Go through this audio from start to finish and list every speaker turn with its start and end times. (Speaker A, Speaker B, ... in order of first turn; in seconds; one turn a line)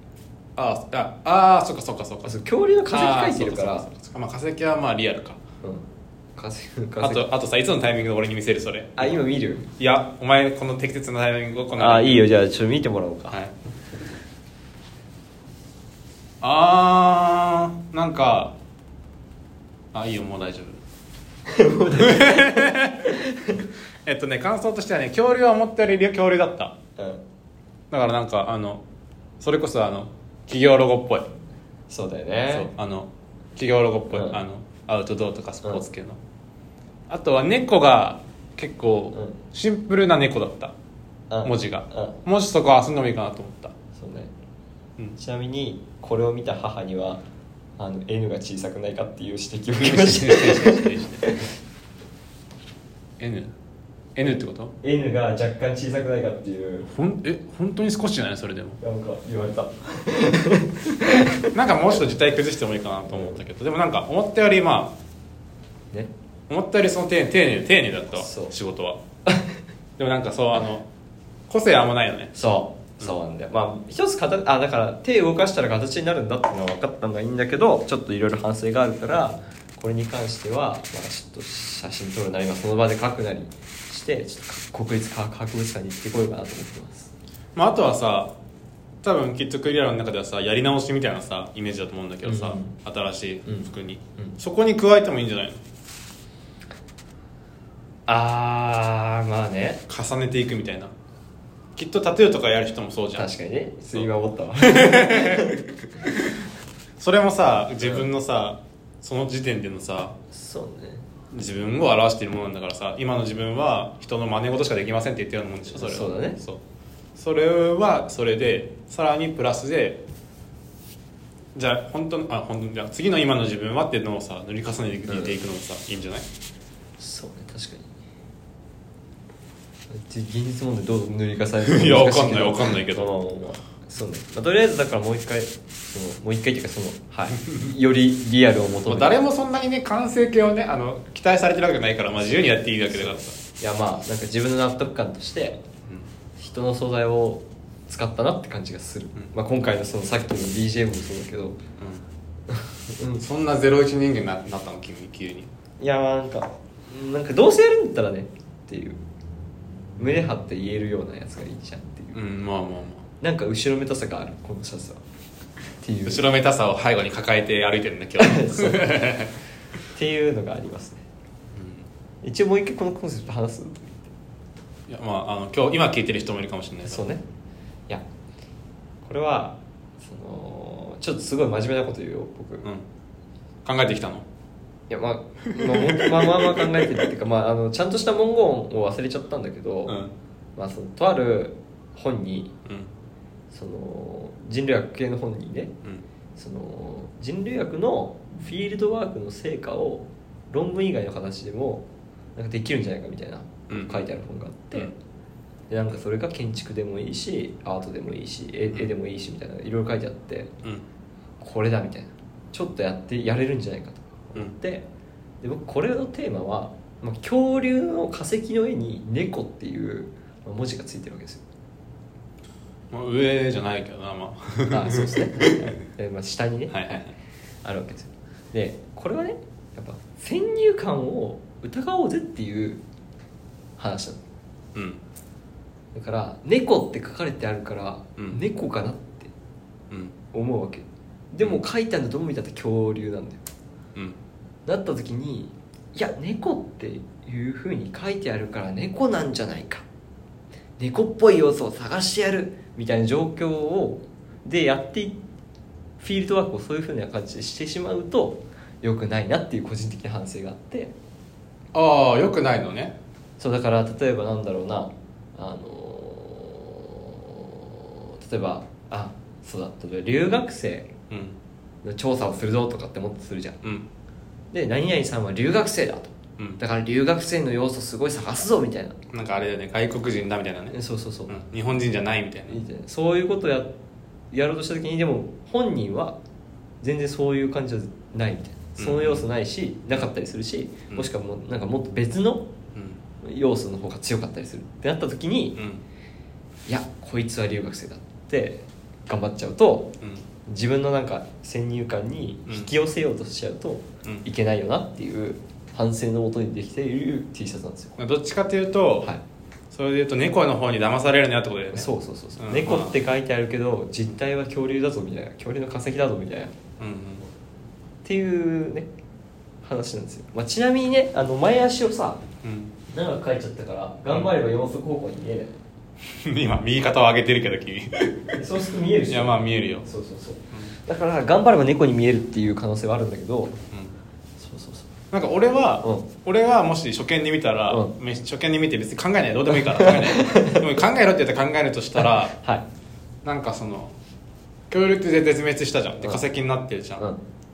Speaker A: 0.6-2.4
Speaker B: 2.2-3.9
Speaker A: 2.9-5.4
Speaker B: 6.4-7.3
Speaker A: 7.0-12.3
Speaker B: 9.0-9.7
Speaker B: 11.8-13.4
Speaker A: 16.4-18.6
Speaker A: 19.9-20.8
Speaker B: 21.5-23.6
Speaker A: 21.9-23.2
Speaker A: 24.1-26.8
Speaker B: 27.0-27.2
Speaker A: 27.9-28.8
Speaker A: 29.4-31.3
Speaker B: 31.9-32.7
Speaker A: 32.5-36.2
Speaker B: 34.1-34.4
Speaker A: 37.1-40.7
Speaker B: 39.1-39.4
Speaker B: 41.3-42.2
Speaker A: 41.4-43.8
Speaker B: 44.0-44.3
Speaker B: 45.2-47.2
Speaker B: 47.8-51.5
Speaker A: 49.8-51.4
Speaker A: 53.2-53.5
Speaker A: 54.2-54.7
Speaker B: 54.8-56.9
Speaker A: 56.9-58.8
Speaker B: 58.8-61.5
Speaker A: 61.5-65.0
Speaker A: 66.5-69.0
Speaker B: 68.2-68.5
Speaker B: 69.3-69.6
Speaker A: 70.0-70.9
Speaker A: 71.5-72.4
Speaker B: 72.3-87.1
Speaker A: 87.5-88.3
Speaker A: 89.0-95.6
Speaker B: 92.3-92.8
Speaker B: 93.5-94.4
Speaker B: 98.1-99.8
Speaker A: 99.9-100.9
Speaker A: 101.8-103.3
Speaker B: 103.2-105.6
Speaker A: 103.9-106.5
Speaker A: 107.0-110.2
Speaker B: 107.8-108.1
Speaker B: 110.3-111.0
Speaker A: 111.3-116.6
Speaker B: 115.7-116.4
Speaker A: 117.2-120.0
Speaker A: 121.5-126.3
Speaker B: 125.1-125.4
Speaker B: 127.0-127.9
Speaker B: 129.9-139.1
Speaker A: 131.6-133.1
Speaker A: 138.9-143.4
Speaker B: 142.9-145.6
Speaker B: 146.4-151.6
Speaker A: 151.8-152.1
Speaker B: 152.5-153.2
Speaker A: 153.2-155.5
Speaker B: 155.8-159.0
Speaker B: 160.0-162.2
Speaker A: 162.1-163.1
Speaker B: 163.2-165.0
Speaker B: 165.8-166.2
Speaker A: 166.1-169.3
Speaker B: 168.2-169.0
Speaker B: 169.9-171.0
Speaker A: 171.6-171.8
Speaker B: 172.2-174.1
Speaker A: 174.9-177.1
Speaker B: 176.9-177.2
Speaker B: 179.0-182.7
Speaker A: 183.7-184.3
Speaker B: 184.9-190.0
Speaker A: 185.6-186.9
Speaker A: 189.9-190.1
Speaker B: 190.6-192.5
Speaker A: 192.7-192.9
Speaker B: 193.5-195.7
Speaker B: 196.4-201.8
Speaker B: 202.4-204.9
Speaker A: 203.7-204.1
Speaker B: 205.7-210.5
Speaker B: 211.4-214.8
Speaker B: 215.4-221.4
Speaker A: 222.9-225.7
Speaker B: 224.7-227.0
Speaker A: 226.7-227.1
Speaker B: 227.6-232.8
Speaker B: 233.8-234.2
Speaker A: 234.8-235.0
Speaker B: 235.9-239.3
Speaker A: 239.9-240.2
Speaker B: 240.3-243.4
Speaker B: 244.7-249.8
Speaker B: 250.8-255.2
Speaker B: 256.0-260.9
Speaker A: 261.7-263.0
Speaker B: 263.4-270.9
Speaker A: 271.1-271.4
Speaker B: 271.8-273.6
Speaker A: 273.6-273.9
Speaker B: 274.5-279.0
Speaker A: 279.1-280.8
Speaker B: 280.7-281.4
Speaker A: 281.3-282.6
Speaker B: 282.5-283.7
Speaker B: 284.3-286.2
Speaker B: 286.8-292.5
Speaker A: 288.8-289.3
Speaker A: 292.7-293.0
Speaker B: 293.2-295.6
Speaker A: 295.6-295.8
Speaker B: 296.7-299.9
Speaker B: 300.5-308.0
Speaker A: 308.0-309.1
Speaker A: 309.7-312.9
Speaker B: 311.7-316.6
Speaker A: 316.8-317.2
Speaker B: 318.1-318.9
Speaker B: 319.6-322.2
Speaker A: 322.4-322.7
Speaker B: 322.9-325.5
Speaker A: 326.1-328.4
Speaker B: 328.3-333.6
Speaker A: 329.1-329.9
Speaker B: 334.4-334.9
Speaker A: 335.1-342.3
Speaker B: 337.7-337.9
Speaker B: 339.5-340.7
Speaker B: 342.0-342.6
Speaker A: 343.2-343.9
Speaker A: 344.7-347.1